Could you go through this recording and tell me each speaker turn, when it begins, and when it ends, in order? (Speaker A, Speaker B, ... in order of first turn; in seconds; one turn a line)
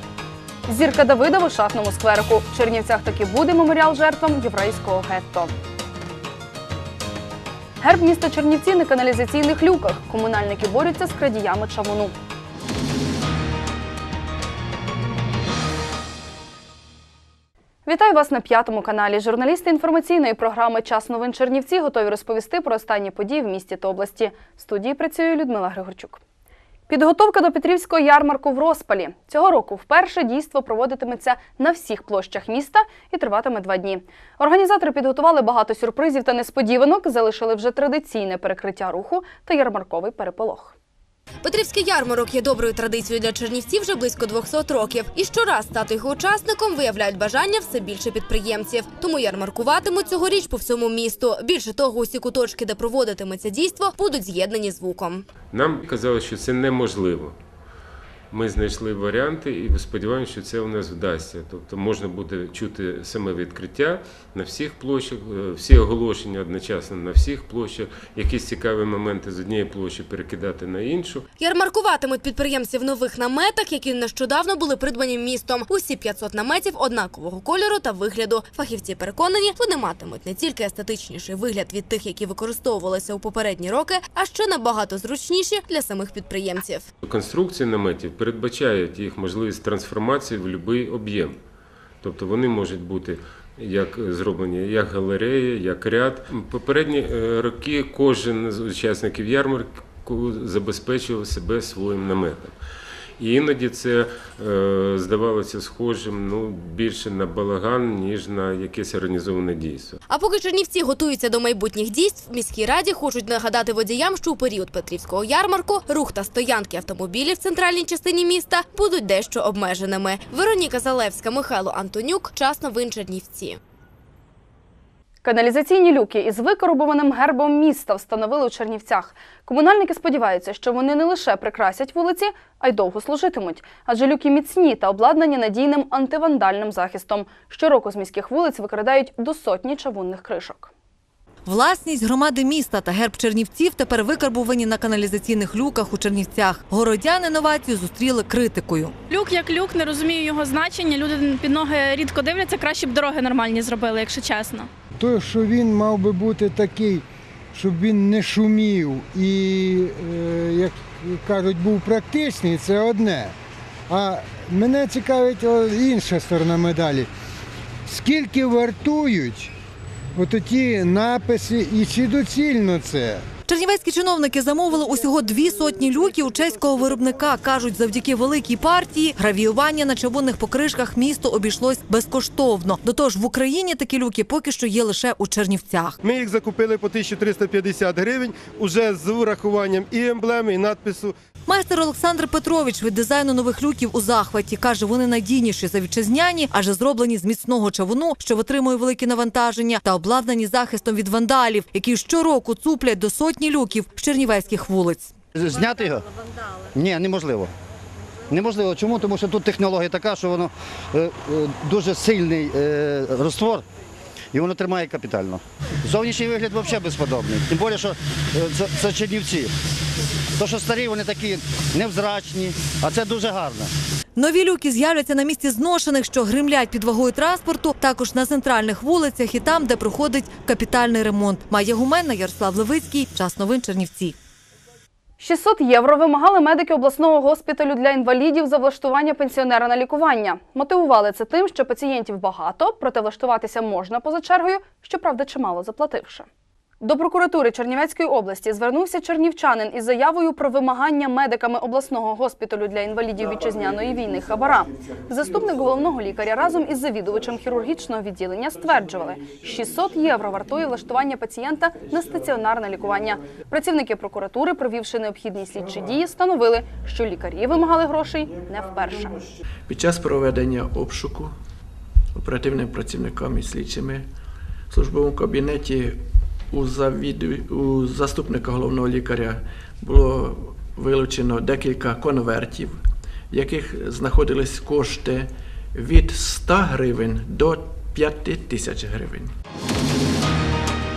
Speaker A: 0.7-5.5
Speaker A: 7.8-12.1
Speaker A: 17.9-26.2
Speaker A: 26.9-40.7
Speaker B: 41.4-55.3
Speaker C: 55.5-57.3
Speaker C: 58.3-71.2
Speaker B: 71.4-86.9
Speaker C: 87.0-91.4
Speaker C: 92.0-102.5
Speaker C: 103.2-110.0
Speaker B: 110.1-123.6
Speaker A: 125.2-140.7
Speaker D: 141.4-148.9
Speaker E: 149.1-154.7
Speaker F: 155.0-163.3
Speaker F: 163.9-167.1
Speaker F: 167.9-169.5
Speaker F: 170.2-173.2
Speaker D: 173.5-186.0
Speaker G: 186.0-191.1
Speaker D: 191.4-205.1
Speaker H: 205.3-206.0
Speaker H: 206.7-207.5
Speaker H: 208.3-213.6
Speaker H: 214.3-219.5
Speaker H: 220.4-223.7
Speaker D: 224.2-234.2
Speaker A: 235.2-246.2
Speaker A: 246.8-269.2
Speaker I: 269.7-271.3
Speaker I: 272.1-274.1
Speaker I: 274.7-282.8
Speaker I: 283.3-289.3